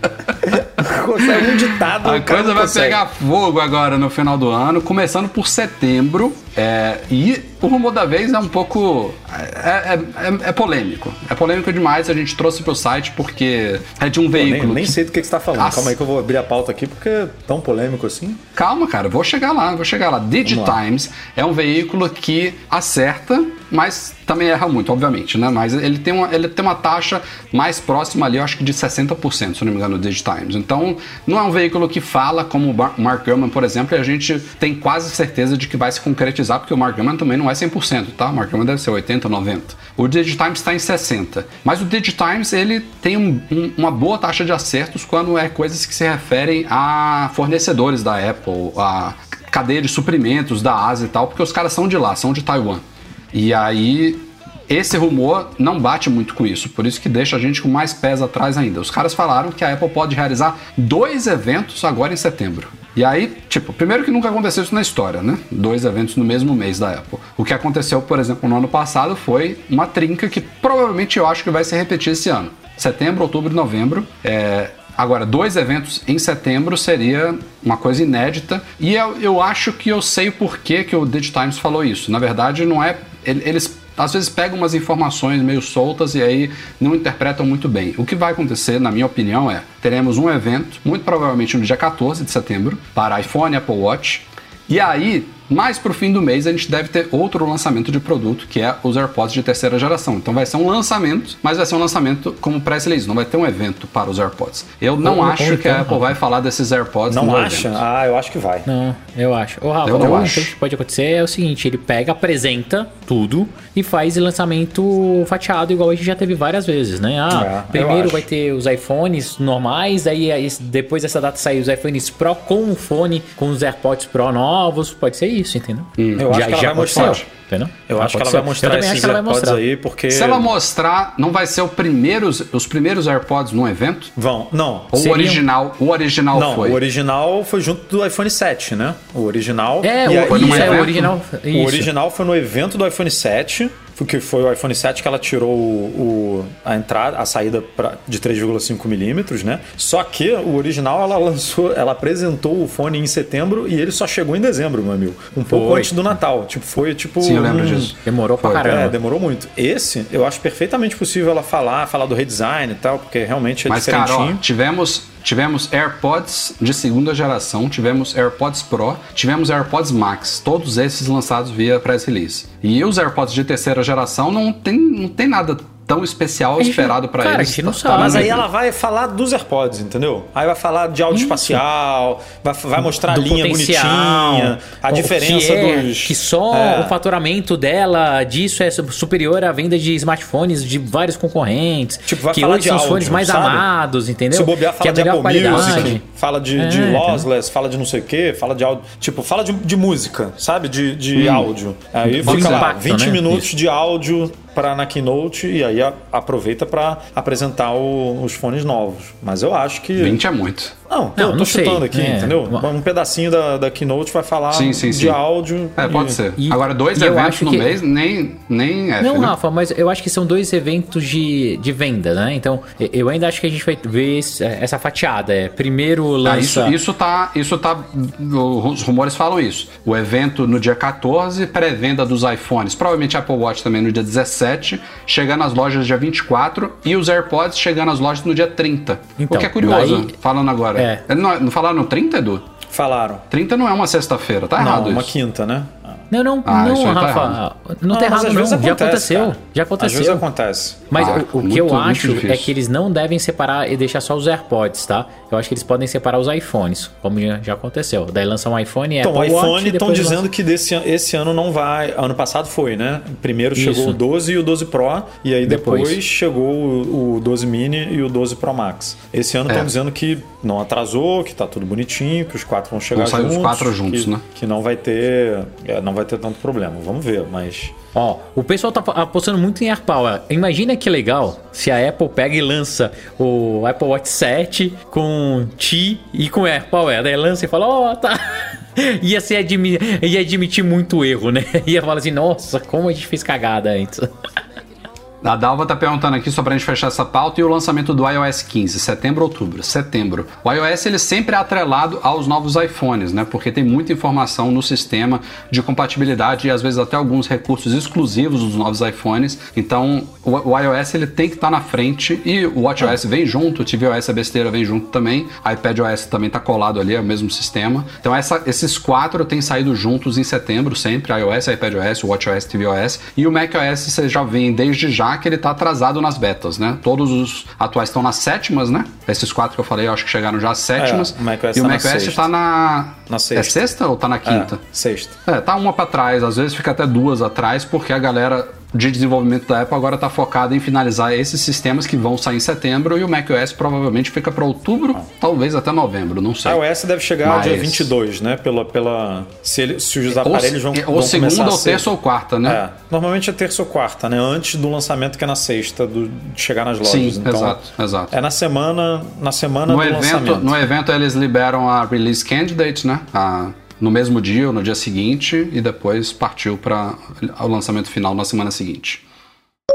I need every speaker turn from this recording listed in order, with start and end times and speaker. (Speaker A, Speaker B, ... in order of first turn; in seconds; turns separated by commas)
Speaker A: 0.4-3.0, Speaker B: 1.4-15.0, Speaker A: 14.3-18.4, Speaker B: 15.6-16.0, Speaker B: 18.6-107.8, Speaker A: 20.4-20.8, Speaker C: 105.0-106.1, Speaker A: 107.1-108.7, Speaker C: 108.7-129.6, Speaker B: 109.8-110.5, Speaker A: 110.0-110.3, Speaker A: 117.3-118.3, Speaker B: 126.0-126.3, Speaker A: 126.2-127.3, Speaker B: 126.9-127.2, Speaker A: 127.9-130.5, Speaker B: 130.1-134.1, Speaker A: 134.2-134.9, Speaker B: 134.9-136.8, Speaker C: 134.9-135.4, Speaker A: 136.3-157.9, Speaker C: 139.8-141.9, Speaker B: 140.3-141.1, Speaker C: 155.5-155.9, Speaker B: 157.2-158.8, Speaker C: 158.0-158.9, Speaker A: 158.5-164.4, Speaker B: 163.7-178.4, Speaker C: 176.6-178.3, Speaker A: 177.9-187.0, Speaker C: 181.1-181.6, Speaker C: 182.9-196.0, Speaker A: 192.1-193.7, Speaker A: 194.3-210.2, Speaker B: 195.4-196.0, Speaker C: 196.6-197.3, Speaker B: 201.2-201.5, Speaker C: 202.1-203.5, Speaker B: 202.2-202.7, Speaker B: 210.0-210.7, Speaker A: 210.9-216.2, Speaker C: 211.2-212.7, Speaker B: 214.5-215.2, Speaker B: 215.8-219.3, Speaker C: 216.4-217.8, Speaker C: 219.0-226.8, Speaker B: 226.2-242.4, Speaker C: 239.2-240.1, Speaker C: 240.8-241.0, Speaker A: 242.7-243.2, Speaker B: 243.3-245.2, Speaker A: 244.6-246.0, Speaker C: 246.1-250.2, Speaker B: 246.4-247.4, Speaker A: 247.9-250.9, Speaker C: 250.9-260.2, Speaker B: 250.9-252.5, Speaker A: 259.0-277.8, Speaker C: 263.6-264.0, Speaker C: 265.5-266.0, Speaker B: 272.9-274.2, Speaker C: 277.9-294.1, Speaker B: 295.2-334.6, Speaker A: 330.8-332.3, Speaker A: 333.1-333.6, Speaker A: 334.2-335.2, Speaker B: 335.3-346.6, Speaker A: 346.4-351.9, Speaker B: 347.2-347.9, Speaker B: 350.1-352.6, Speaker A: 352.4-360.6, Speaker B: 356.8-358.1, Speaker B: 359.7-369.0